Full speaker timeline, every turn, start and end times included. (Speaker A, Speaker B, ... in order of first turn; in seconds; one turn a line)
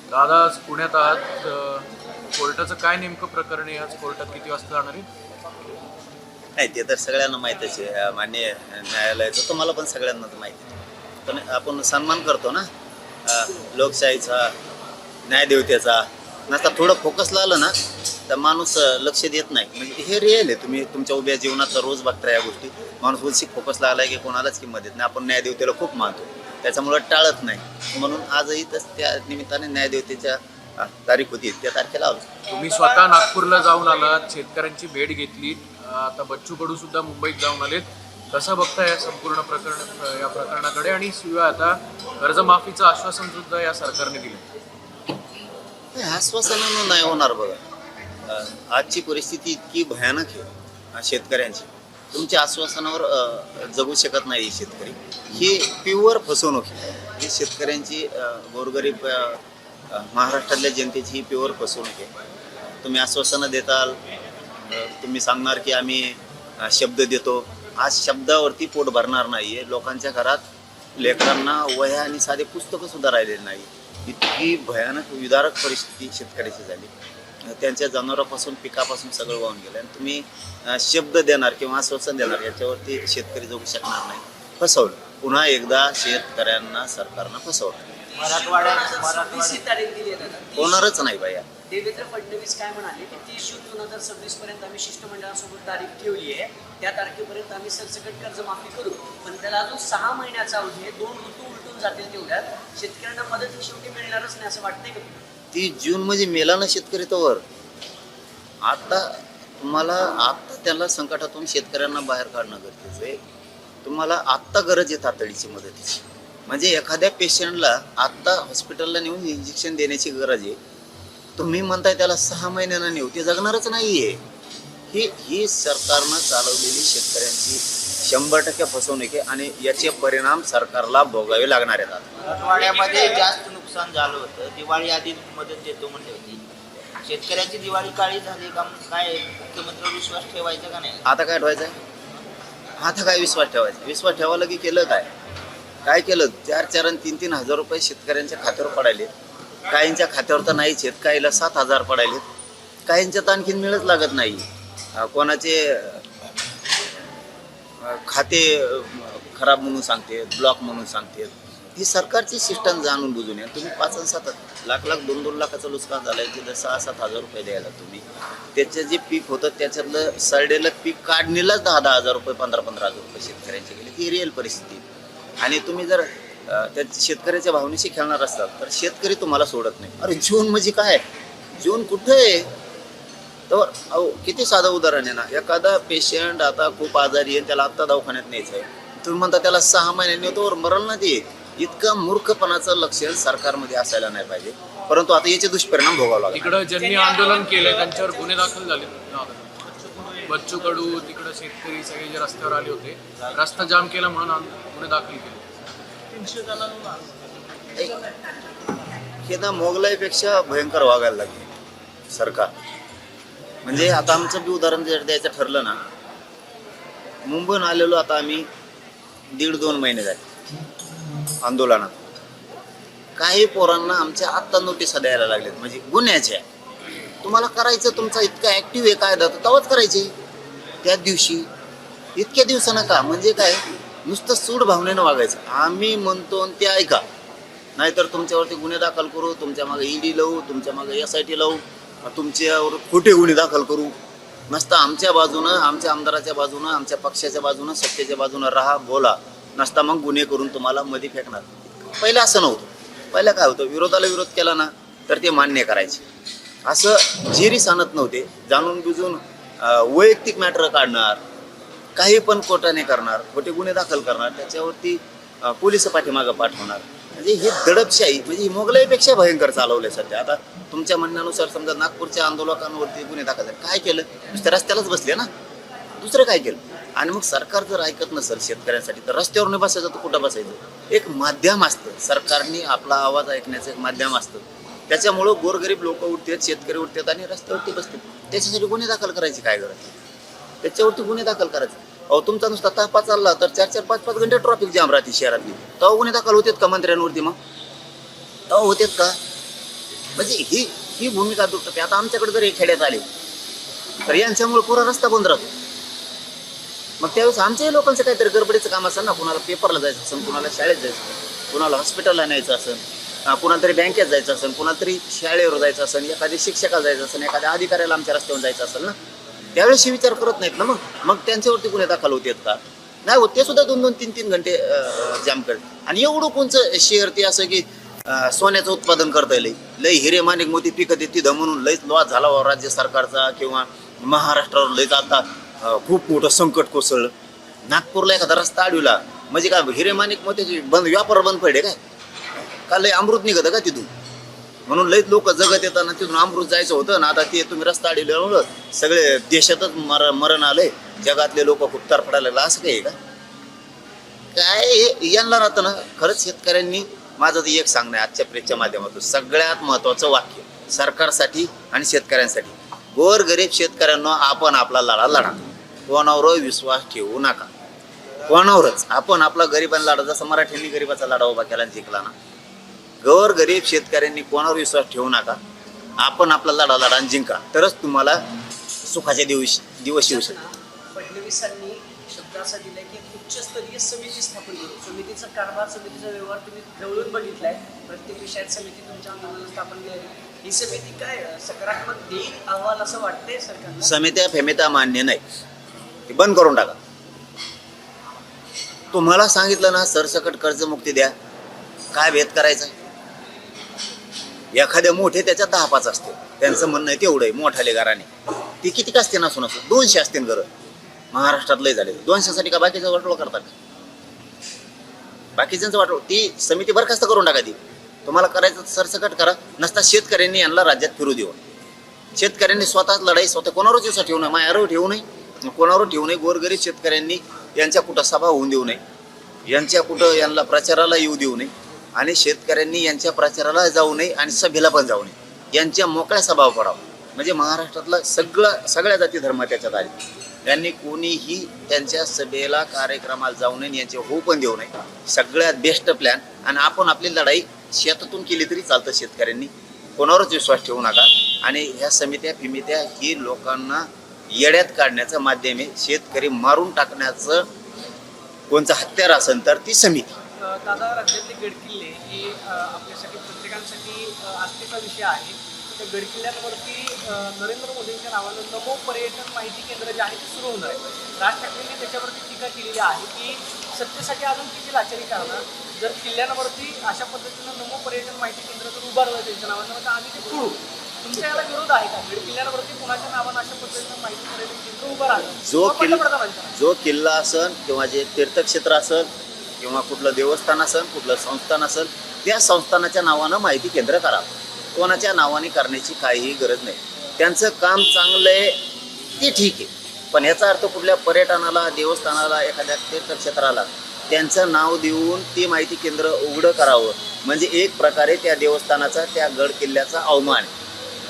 Speaker A: 0.1-5.1
Speaker B: 6.6-10.8
Speaker B: 11.3-12.7
Speaker B: 13.3-14.6
Speaker B: 15.3-17.7
Speaker B: 18.3-32.3
Speaker A: 32.5-44.5
Speaker B: 46.0-47.6
Speaker B: 48.3-59.4
Speaker B: 59.9-62.1
Speaker B: 62.8-64.0
Speaker B: 64.7-70.4
Speaker B: 71.0-76.9
Speaker B: 77.5-87.9
Speaker C: 88.2-90.9
Speaker D: 88.2-89.6
Speaker B: 90.5-91.5
Speaker C: 91.7-105.2
Speaker B: 105.5-107.4
Speaker B: 108.6-113.2
Speaker B: 113.8-120.6
Speaker B: 121.4-124.2
Speaker B: 124.9-132.1
Speaker D: 132.2-136.4
Speaker D: 137.0-141.0
Speaker B: 141.1-141.8
Speaker B: 142.8-145.1
Speaker B: 145.8-149.1
Speaker B: 149.7-152.2
Speaker B: 152.9-156.1
Speaker B: 157.8-174.8
Speaker B: 175.4-181.0
Speaker B: 181.6-182.5
Speaker B: 183.5-196.6
Speaker A: 196.3-199.5
Speaker E: 196.8-198.4
Speaker A: 200.2-205.4
Speaker E: 206.2-206.8
Speaker B: 207.8-208.0
Speaker B: 209.2-211.5
Speaker B: 212.1-212.5
Speaker B: 213.7-215.8
Speaker B: 217.3-218.5
Speaker B: 219.3-220.2
Speaker B: 221.4-222.0
Speaker B: 223.2-226.4
Speaker B: 227.2-230.1
Speaker B: 230.8-231.5
Speaker B: 232.2-237.0
Speaker B: 237.8-243.9
Speaker B: 244.5-256.0
Speaker B: 256.7-261.2
Speaker B: 262.0-275.3
Speaker B: 276.0-289.9
Speaker B: 290.6-297.4
Speaker B: 298.5-299.2
Speaker B: 300.2-303.1
Speaker B: 304.1-305.5
Speaker B: 307.0-318.9
Speaker B: 319.6-337.1
Speaker B: 337.7-341.8
Speaker B: 342.7-343.9
Speaker B: 344.7-352.9
Speaker B: 354.3-367.5
Speaker B: 368.3-372.1
Speaker B: 373.0-375.4
Speaker B: 376.0-378.2
Speaker B: 378.8-380.4
Speaker C: 380.0-393.9
Speaker B: 393.8-395.2
Speaker B: 396.1-396.8
Speaker B: 398.9-401.1
Speaker B: 401.9-402.7
Speaker B: 404.5-408.1
Speaker B: 408.6-410.5
Speaker B: 411.1-413.5
Speaker B: 415.4-421.4
Speaker B: 422.2-428.8
Speaker B: 429.5-439.9
Speaker B: 440.4-457.5
Speaker B: 458.5-460.2
Speaker E: 460.4-486.6
Speaker B: 485.4-489.1
Speaker B: 489.6-498.6
Speaker B: 499.2-510.5